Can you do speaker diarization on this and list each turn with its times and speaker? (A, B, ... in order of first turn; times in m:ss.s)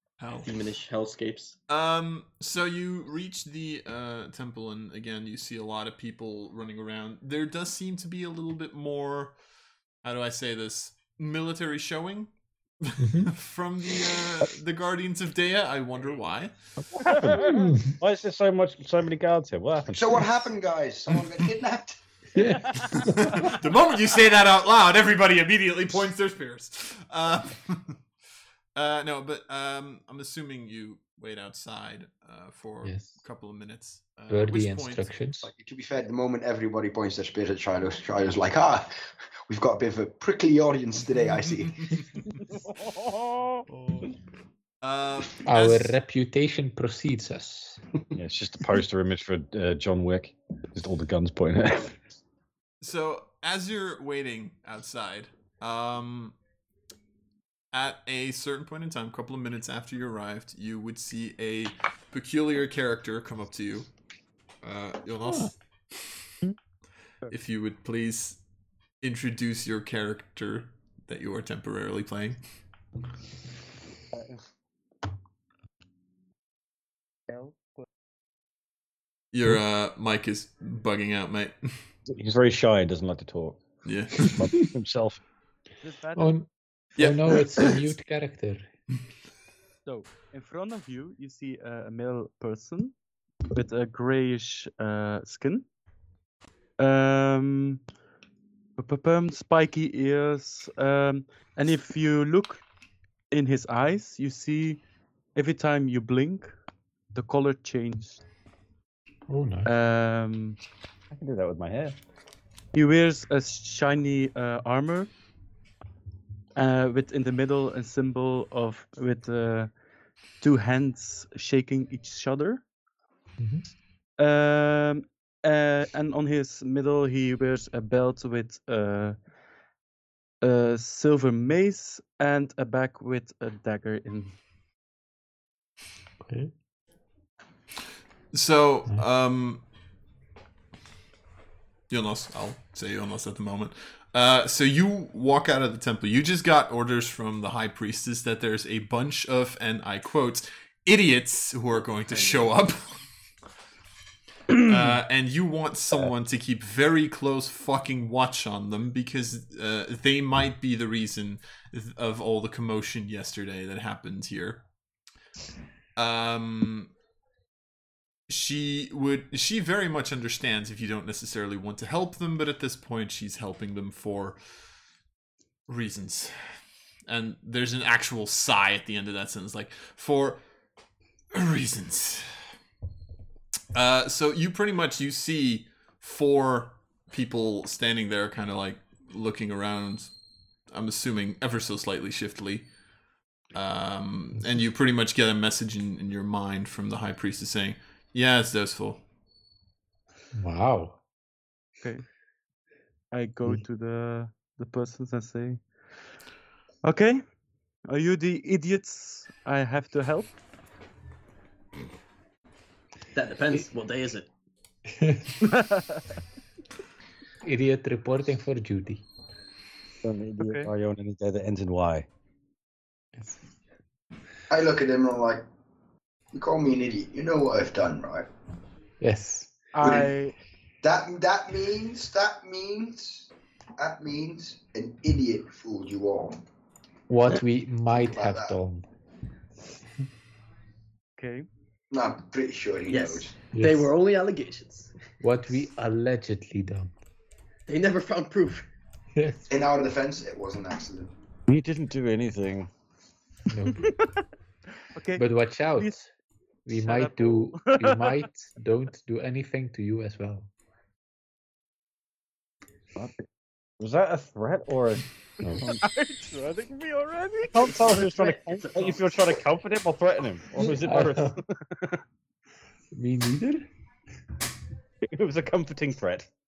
0:00.2-0:00.5 A
0:00.4-0:01.6 B
0:01.7-0:09.4 A
0:10.0-0:16.5 A
0:13.0-0:13.3 C
0:16.8-0:20.3 D
0:17.4-0:18.0 C
0:19.9-0:22.0 E
0:22.3-0:23.5 C
0:22.9-0:28.0 A
0:28.7-0:35.1 A
0:32.8-0:33.2 C
0:34.3-0:35.5 C
0:35.4-0:41.9 E
0:41.3-0:42.3 A
0:42.5-0:43.6 D
0:43.7-0:44.1 A
0:44.8-0:46.0 A
0:45.4-0:47.8 C
0:48.1-0:52.0 D
0:52.8-0:56.4 A
0:57.7-1:03.9 A
1:04.6-1:06.2 A
1:07.3-1:08.4 A
1:09.0-1:12.4 A
1:17.3-1:17.7 F
1:19.3-1:21.8 A
1:22.1-1:23.6 D
1:23.8-1:24.4 A
1:24.2-1:25.2 D
1:25.8-1:26.4 F
1:26.2-1:28.7 C
1:27.0-1:27.8 A
1:29.8-1:33.0 F
1:33.5-1:35.6 F
1:36.8-1:37.8 F
1:38.8-1:42.6 F
1:43.3-1:44.8 F
1:45.3-1:46.5 F
1:47.1-1:48.2 F
1:49.3-1:49.7 C
1:49.6-1:50.6 F
1:51.1-1:52.0 D
1:52.7-1:55.1 F
1:56.6-1:59.7 F
2:00.4-2:02.6 F
2:03.4-2:03.6 C
2:04.2-2:09.2 F
2:10.4-2:14.4 F
2:16.2-2:16.5 C
2:18.3-2:19.6 A
2:21.9-2:33.0 A
2:32.1-2:32.5 B
2:34.6-2:44.6 A
2:46.0-2:46.9 A
2:48.3-2:54.4 A
2:55.7-2:56.4 A
2:57.1-3:00.4 A
3:01.3-3:02.4 A
3:03.7-3:10.1 A
3:10.7-3:12.7 A
3:13.5-3:19.0 A
3:20.3-3:21.0 C
3:23.1-3:25.7 F
3:26.8-3:27.2 F
3:27.9-3:30.4 F
3:33.1-3:34.3 B
3:34.9-3:35.3 C
3:35.4-3:36.0 F
3:37.4-3:39.0 C
3:40.0-3:42.1 D
3:40.4-3:40.7 F
3:44.5-3:45.4 E
3:46.3-3:48.3 E
3:49.0-3:49.7 C
3:49.7-3:50.3 F
3:49.8-3:50.1 E
3:50.8-3:56.4 E
3:57.1-3:58.8 C
3:57.9-3:58.6 E
4:01.2-4:01.5 F
4:01.9-4:03.4 E
4:02.9-4:04.9 B
4:03.5-4:03.9 C
4:05.2-4:06.9 C
4:07.7-4:08.7 B
4:09.1-4:09.5 C
4:09.5-4:11.1 E
4:11.5-4:12.7 D
4:13.5-4:13.9 C
4:13.7-4:14.2 F
4:14.9-4:16.0 F
4:15.2-4:16.1 C
4:16.6-4:20.5 C
4:16.7-4:18.2 F
4:23.0-4:23.2 D
4:23.8-4:25.8 D
4:25.6-4:28.1 F
4:26.6-4:26.9 D
4:27.5-4:32.0 D
4:27.9-4:29.1 B
4:30.6-4:31.4 C
4:32.9-4:33.7 C
4:35.0-4:36.3 D